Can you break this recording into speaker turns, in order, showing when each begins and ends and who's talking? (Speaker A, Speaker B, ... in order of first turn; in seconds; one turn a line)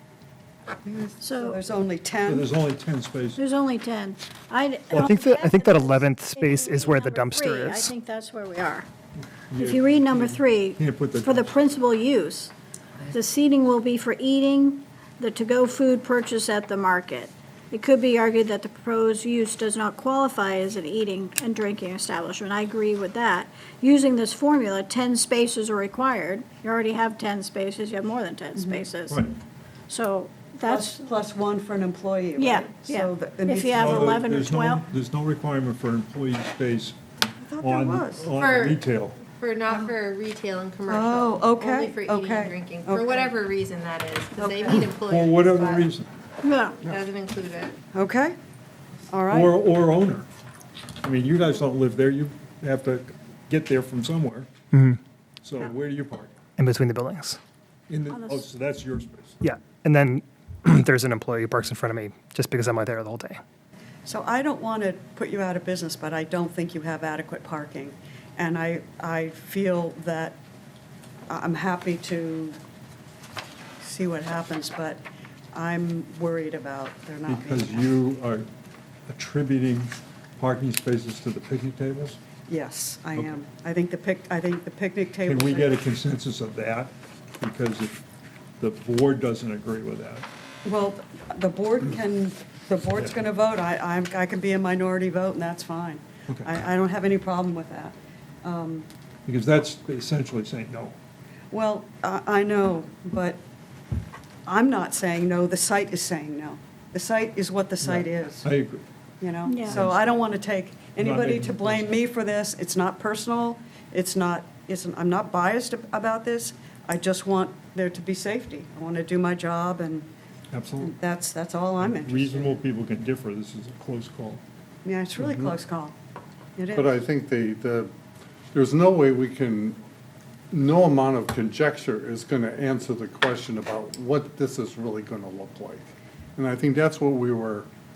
Speaker A: 0.8-2.5
Speaker B: 1.2-1.6
Speaker C: 2.2-3.4
Speaker B: 3.4-8.9
Speaker D: 4.9-7.9
Speaker C: 9.2-11.5
Speaker B: 9.6-12.5
Speaker B: 13.1-29.3
Speaker A: 28.6-28.8
Speaker C: 29.1-29.3
Speaker B: 29.9-31.0
Speaker A: 30.6-34.3
Speaker B: 32.4-34.8
Speaker C: 33.8-37.0
Speaker A: 37.4-38.3
Speaker C: 37.6-39.2
Speaker E: 38.4-45.9
Speaker A: 40.9-43.4
Speaker A: 44.4-44.9
Speaker C: 44.7-46.1
Speaker B: 46.4-46.8
Speaker E: 46.8-47.8
Speaker A: 47.9-48.4
Speaker A: 49.1-49.5
Speaker C: 49.3-50.3
Speaker C: 51.0-54.5
Speaker D: 54.7-55.0
Speaker C: 55.4-56.4
Speaker D: 56.6-57.4
Speaker C: 57.9-59.5
Speaker B: 58.1-58.5
Speaker D: 59.4-63.4
Speaker A: 64.0-70.4
Speaker A: 71.3-72.6
Speaker A: 73.8-75.0
Speaker A: 75.5-77.9
Speaker C: 77.3-78.5
Speaker C: 79.1-82.2
Speaker A: 82.5-85.8
Speaker C: 85.3-88.0
Speaker C: 88.6-90.3
Speaker A: 90.7-98.9
Speaker C: 99.3-101.0
Speaker A: 101.5-103.4
Speaker A: 104.5-108.5
Speaker C: 107.8-108.8
Speaker A: 109.2-120.1
Speaker B: 109.5-109.8
Speaker C: 109.7-110.0
Speaker C: 111.0-112.0
Speaker C: 120.5-121.0
Speaker A: 120.8-122.6
Speaker C: 121.8-124.4
Speaker A: 124.8-126.0
Speaker F: 125.2-125.5
Speaker A: 126.6-126.9
Speaker F: 126.7-127.9
Speaker F: 128.5-129.8
Speaker F: 130.5-137.7